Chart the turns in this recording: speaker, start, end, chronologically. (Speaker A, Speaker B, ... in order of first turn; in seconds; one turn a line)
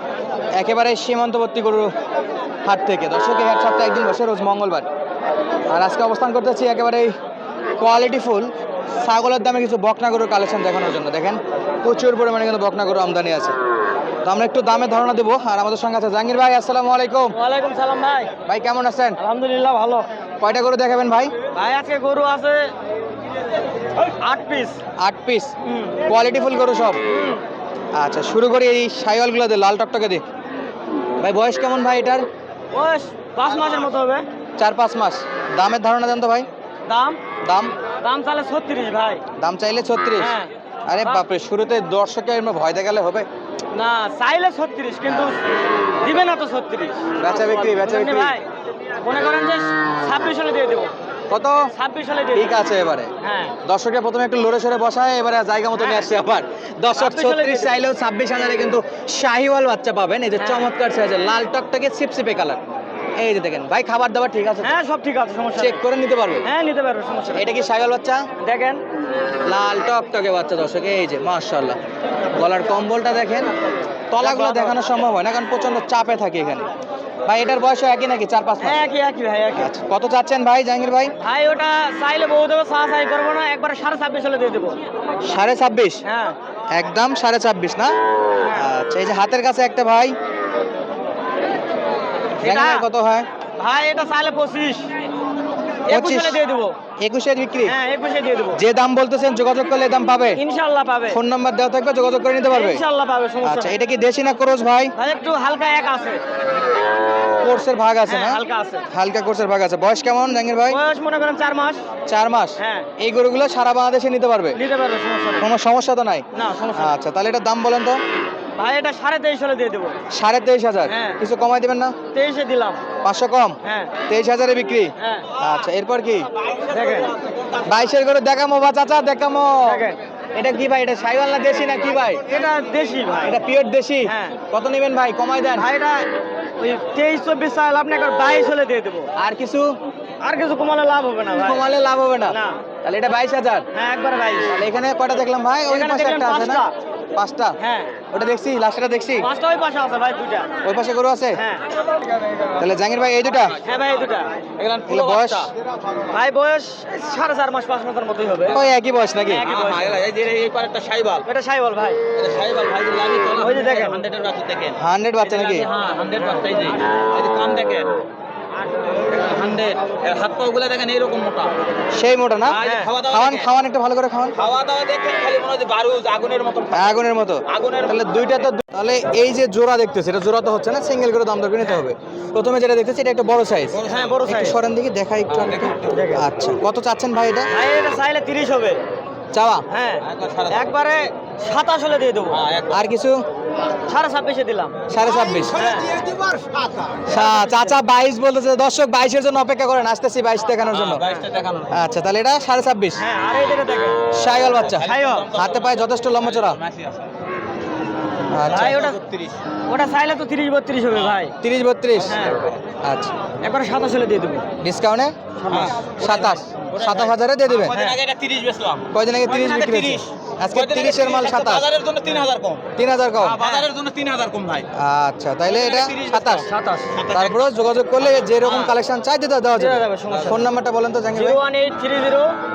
Speaker A: 0.5-1.9
Speaker A: 2.6-4.9
Speaker A: 5.7-7.1
Speaker A: 7.8-13.5
Speaker A: 14.2-17.4
Speaker B: 17.3-18.3
Speaker A: 18.5-19.2
Speaker B: 19.2-20.1
Speaker A: 20.4-21.3
Speaker B: 21.5-22.7
Speaker B: 24.0-24.8
Speaker A: 25.0-27.0
Speaker B: 25.6-26.0
Speaker B: 27.1-27.4
Speaker A: 27.9-30.2
Speaker A: 31.2-32.3
Speaker B: 32.7-34.2
Speaker A: 34.6-36.5
Speaker B: 36.9-37.2
Speaker A: 37.4-37.7
Speaker B: 38.0-39.2
Speaker A: 39.4-40.3
Speaker B: 40.2-41.2
Speaker A: 40.9-43.3
Speaker B: 43.7-45.4
Speaker A: 45.1-45.4
Speaker B: 46.0-48.4
Speaker A: 47.2-48.4
Speaker B: 49.0-50.9
Speaker A: 51.3-51.7
Speaker B: 51.7-52.5
Speaker A: 52.3-53.1
Speaker B: 53.2-53.6
Speaker A: 53.6-62.6
Speaker B: 55.8-56.1
Speaker B: 57.0-57.8
Speaker B: 60.4-60.7
Speaker A: 63.2-64.7
Speaker B: 64.6-65.8
Speaker A: 65.6-66.5
Speaker B: 66.4-67.5
Speaker A: 67.3-68.3
Speaker B: 68.4-68.8
Speaker A: 69.4-71.8
Speaker A: 72.3-73.5
Speaker A: 74.1-76.7
Speaker B: 74.2-74.8
Speaker A: 77.3-78.8
Speaker B: 78.6-79.7
Speaker A: 79.5-81.1
Speaker B: 81.2-84.8
Speaker A: 85.2-86.0
Speaker B: 86.0-86.4
Speaker A: 86.7-88.0
Speaker A: 88.5-90.2
Speaker B: 92.4-92.9
Speaker A: 92.4-93.3
Speaker B: 93.6-94.9
Speaker B: 95.9-96.8
Speaker A: 95.9-96.4
Speaker A: 97.0-97.8
Speaker B: 97.6-98.6
Speaker A: 98.5-100.4
Speaker B: 100.3-101.2
Speaker A: 101.1-102.8
Speaker B: 102.5-103.7
Speaker A: 103.4-105.0
Speaker B: 105.0-106.2
Speaker A: 107.4-108.4
Speaker B: 108.1-108.8
Speaker A: 108.9-110.8
Speaker B: 110.7-111.8
Speaker A: 112.1-114.6
Speaker B: 112.6-112.9
Speaker B: 114.6-115.5
Speaker A: 115.4-118.0
Speaker B: 116.3-116.9
Speaker B: 118.6-120.0
Speaker A: 120.1-122.0
Speaker B: 120.9-121.2
Speaker B: 122.1-122.8
Speaker A: 123.0-123.6
Speaker B: 123.6-123.9
Speaker A: 124.1-126.3
Speaker B: 125.0-125.3
Speaker B: 126.7-127.1
Speaker A: 127.6-132.3
Speaker B: 129.7-130.0
Speaker B: 132.2-133.4
Speaker A: 133.2-135.7
Speaker B: 134.1-134.4
Speaker B: 135.6-136.1
Speaker B: 136.6-139.1
Speaker A: 139.2-139.7
Speaker B: 140.2-141.7
Speaker A: 141.3-143.7
Speaker B: 142.3-142.6
Speaker B: 143.7-144.5
Speaker A: 144.5-146.6
Speaker B: 145.7-146.7
Speaker A: 147.2-147.6
Speaker B: 147.6-147.9
Speaker A: 148.1-149.3
Speaker B: 149.2-150.6
Speaker A: 150.6-151.4
Speaker B: 151.4-151.7
Speaker A: 152.6-153.6
Speaker B: 153.6-154.4
Speaker C: 154.6-155.5
Speaker A: 154.9-155.5
Speaker B: 156.1-158.6
Speaker A: 158.5-159.5
Speaker B: 159.3-160.0
Speaker C: 159.4-161.2
Speaker B: 161.2-162.0
Speaker C: 162.1-168.0
Speaker B: 163.4-164.0
Speaker A: 164.8-165.7
Speaker C: 168.9-171.6
Speaker A: 171.9-174.4
Speaker C: 172.4-173.5
Speaker B: 172.6-172.9
Speaker C: 174.3-177.0
Speaker A: 176.7-187.5
Speaker C: 177.5-177.9
Speaker C: 183.7-184.1
Speaker B: 183.9-184.6
Speaker C: 185.3-186.0
Speaker B: 185.9-186.2
Speaker B: 187.5-188.8
Speaker A: 189.3-189.7
Speaker B: 189.7-192.4
Speaker C: 190.1-190.6
Speaker C: 192.3-192.8
Speaker A: 192.7-193.2
Speaker B: 193.9-194.8
Speaker A: 194.9-195.7
Speaker C: 195.2-197.0
Speaker B: 195.5-196.0
Speaker A: 197.1-201.1
Speaker B: 197.1-197.8
Speaker C: 200.7-201.8
Speaker A: 201.7-203.0
Speaker B: 203.0-204.0
Speaker A: 204.1-206.6
Speaker C: 204.5-207.1
Speaker B: 204.8-205.3
Speaker A: 208.3-208.9
Speaker B: 208.5-209.0
Speaker C: 208.7-209.4
Speaker B: 209.7-211.3
Speaker A: 211.4-212.2
Speaker B: 212.1-212.5
Speaker A: 212.8-213.1
Speaker B: 213.4-214.5
Speaker A: 214.6-215.2
Speaker B: 215.4-215.8
Speaker C: 215.5-222.7
Speaker A: 215.9-217.8
Speaker B: 217.7-218.0
Speaker A: 218.9-221.7
Speaker A: 222.8-223.4
Speaker C: 223.2-224.7
Speaker A: 224.7-226.5
Speaker C: 225.5-227.5
Speaker B: 226.4-226.9
Speaker A: 227.1-231.4
Speaker C: 228.3-228.7
Speaker B: 229.6-230.4
Speaker B: 231.1-232.3